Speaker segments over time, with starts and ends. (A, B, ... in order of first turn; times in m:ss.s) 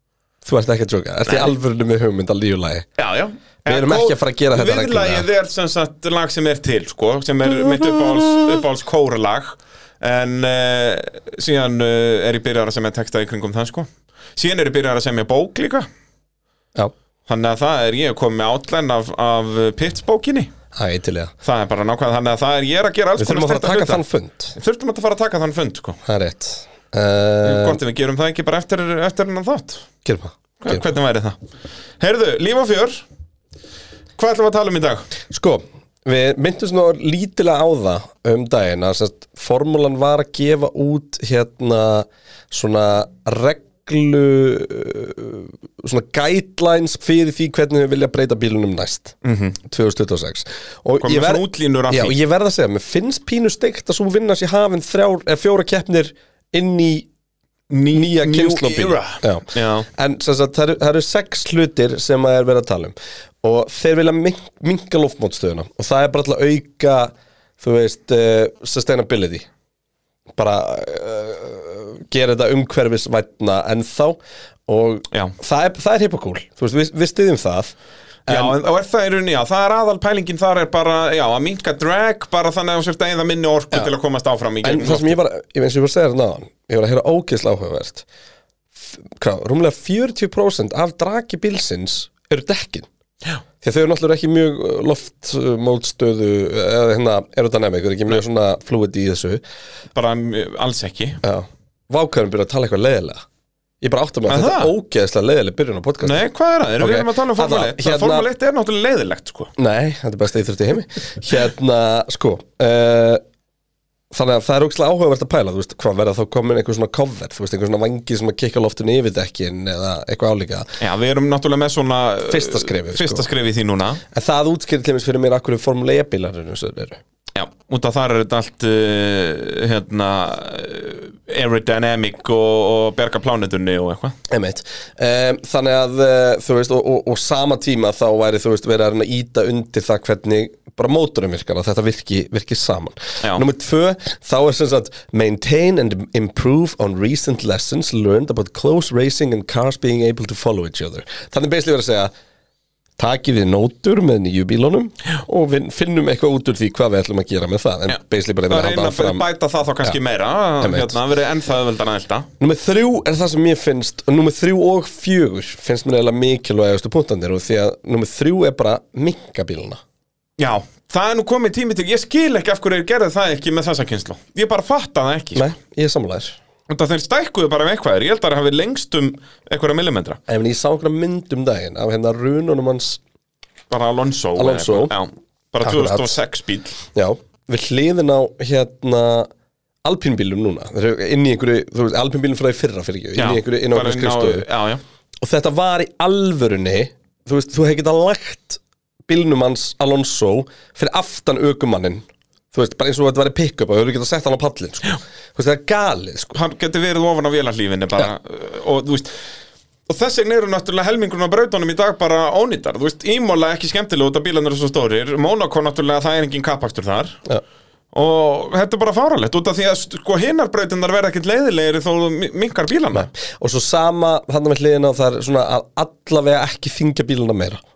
0:00.4-0:02.9 A
0:01.3-0:01.5 B
0:03.0-0:15.8 B
0:03.6-0:05.3 A
0:07.7-0:08.5 A
0:17.3-0:20.5 B
0:20.7-0:21.3 A
0:21.4-0:24.0 B
0:23.2-0:24.6 A
0:24.6-0:26.0 B
0:26.0-0:27.8 A
0:27.4-0:29.8 B
0:30.0-0:30.9 A
0:30.6-0:31.4 B
0:32.0-0:33.0 B
0:34.2-0:35.0 B
0:35.3-0:57.1 A
0:49.2-0:49.6 B
0:51.0-0:52.2 B
0:57.7-0:59.9 B
0:57.9-1:09.5 A
1:10.4-1:17.7 A
1:18.3-1:25.1 B
1:18.3-1:18.6 A
1:24.6-1:28.0 A
1:28.8-1:32.9 A
1:33.6-1:39.4 A
1:39.9-1:41.2 B
1:41.2-1:43.2 A
1:43.8-1:46.2 A
1:44.3-1:44.7 B
1:46.0-1:49.5 B
1:46.8-1:48.3 A
1:49.6-1:53.2 A
1:54.1-2:00.8 A
2:00.8-2:04.0 B
2:02.3-2:03.3 A
2:04.1-2:07.0 A
2:07.3-2:14.2 B
2:14.3-2:32.1 A
2:33.0-2:39.2 A
2:37.9-2:42.3 B
2:40.6-2:41.0 A
2:42.4-2:49.8 A
2:50.4-2:55.5 B
2:55.3-2:56.4 A
2:56.7-3:00.2 B
3:00.3-3:03.0 A
3:03.7-3:06.8 B
3:04.4-3:04.9 A
3:05.6-3:06.2 A
3:06.9-3:09.3 A
3:09.8-3:14.4 A
3:13.2-3:14.8 B
3:15.2-3:26.4 A
3:26.3-3:29.2 B
3:29.9-3:37.2 B
3:37.9-3:43.1 B
3:42.9-3:47.6 A